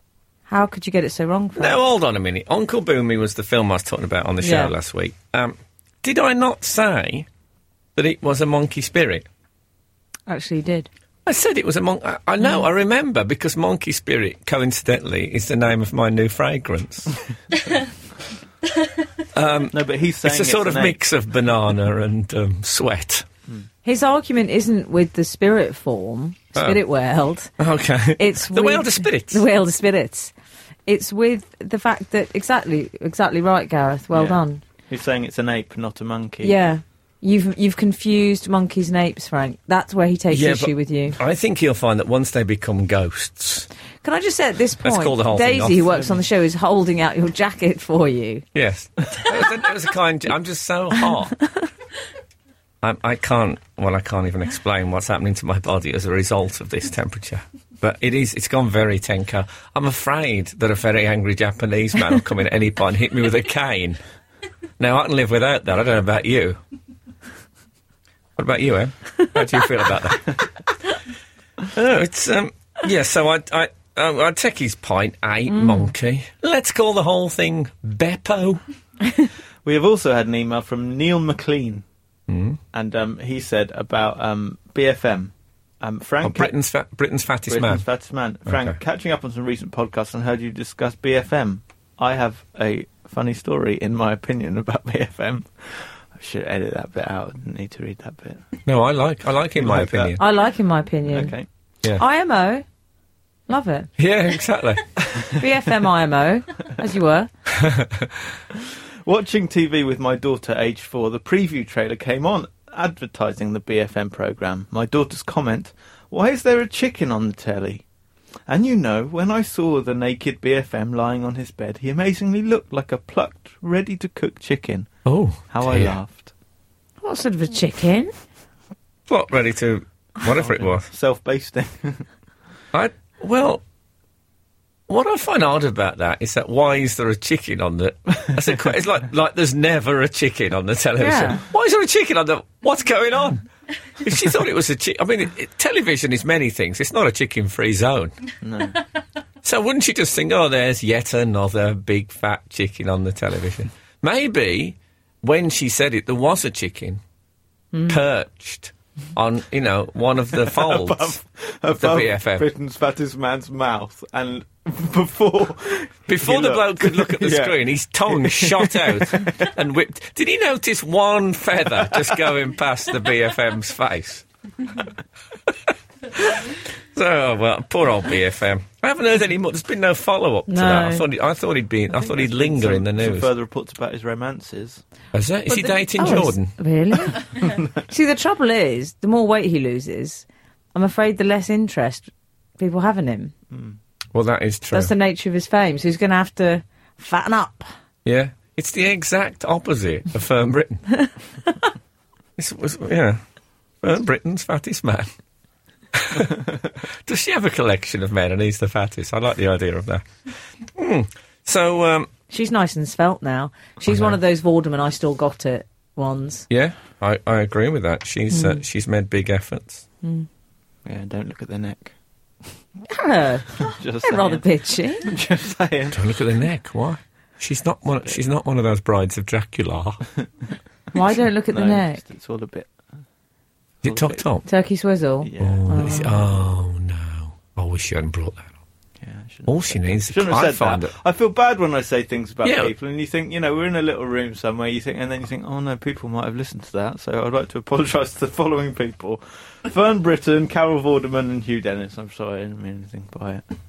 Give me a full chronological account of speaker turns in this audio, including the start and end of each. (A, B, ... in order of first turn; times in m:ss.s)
0:00.5-0:01.8 A
0:01.6-0:07.3 B
0:04.4-0:04.7 A
0:08.0-0:09.3 B
0:10.3-0:10.9 A
0:11.2-0:17.1 B
0:19.2-0:23.3 B
0:19.7-0:21.0 C
0:23.8-0:27.5 A
0:27.6-0:29.4 B
0:28.2-0:30.3 A
0:30.9-0:34.6 A
0:34.1-0:36.6 C
0:36.4-0:41.2 A
0:40.3-0:43.7 B
0:44.0-0:48.4 A
0:44.8-0:45.9 B
0:48.5-0:51.4 B
0:52.8-1:04.0 B
1:04.8-1:06.6 B
1:08.4-1:10.5 B
1:11.7-1:18.6 B
1:15.5-1:15.9 A
1:19.6-1:21.8 C
1:22.3-1:22.6 B
1:22.7-1:26.5 C
1:26.2-1:27.8 B
1:27.5-1:38.5 C
1:28.5-1:28.8 B
1:38.7-1:40.2 B
1:39.6-1:40.2 C
1:40.2-1:41.3 A
1:41.1-1:41.5 C
1:42.0-1:42.6 A
1:43.5-1:43.9 A
1:44.0-1:45.2 B
1:45.3-1:47.3 A
1:47.5-1:48.4 B
1:49.0-1:57.8 C
1:58.5-2:04.9 C
2:05.1-2:06.0 B
2:05.5-2:06.3 C
2:07.0-2:08.1 A
2:09.1-2:10.9 B
2:10.2-2:12.1 C
2:12.7-2:13.6 B
2:14.9-2:23.5 B
2:21.0-2:21.4 A
2:24.0-2:28.1 B
2:28.4-2:28.8 C
2:29.4-2:37.0 B
2:37.7-2:38.0 A
2:37.9-2:41.2 B
2:40.4-2:49.5 C
2:41.7-2:42.4 B
2:46.1-2:54.2 B
2:56.1-3:03.3 B
3:00.5-3:01.0 A
3:01.9-3:04.8 C
3:05.1-3:06.6 B
3:05.5-3:13.3 A
3:13.5-3:13.8 C
3:14.1-3:14.9 B
3:14.7-3:17.7 A
3:18.0-3:20.9 B
3:21.0-3:21.7 A
3:22.4-3:23.2 B
3:23.8-3:25.1 B
3:25.9-3:26.5 B
3:27.0-3:30.1 B
3:30.7-3:32.1 B
3:32.3-3:36.5 A
3:33.9-3:34.2 B
3:36.5-3:39.8 B
3:38.3-3:38.6 A
3:40.8-3:41.9 C
3:42.9-3:45.1 A
3:43.6-3:44.4 C
3:45.0-3:46.0 C
3:45.9-3:50.0 B
3:50.9-3:52.0 A
3:51.5-3:52.8 C
3:53.8-3:54.2 C
3:53.8-3:54.4 B
3:54.5-3:56.2 A
3:55.2-3:56.1 C
3:55.4-3:58.5 B
3:59.0-4:13.4 C
3:59.5-4:01.0 B
4:02.4-4:02.7 B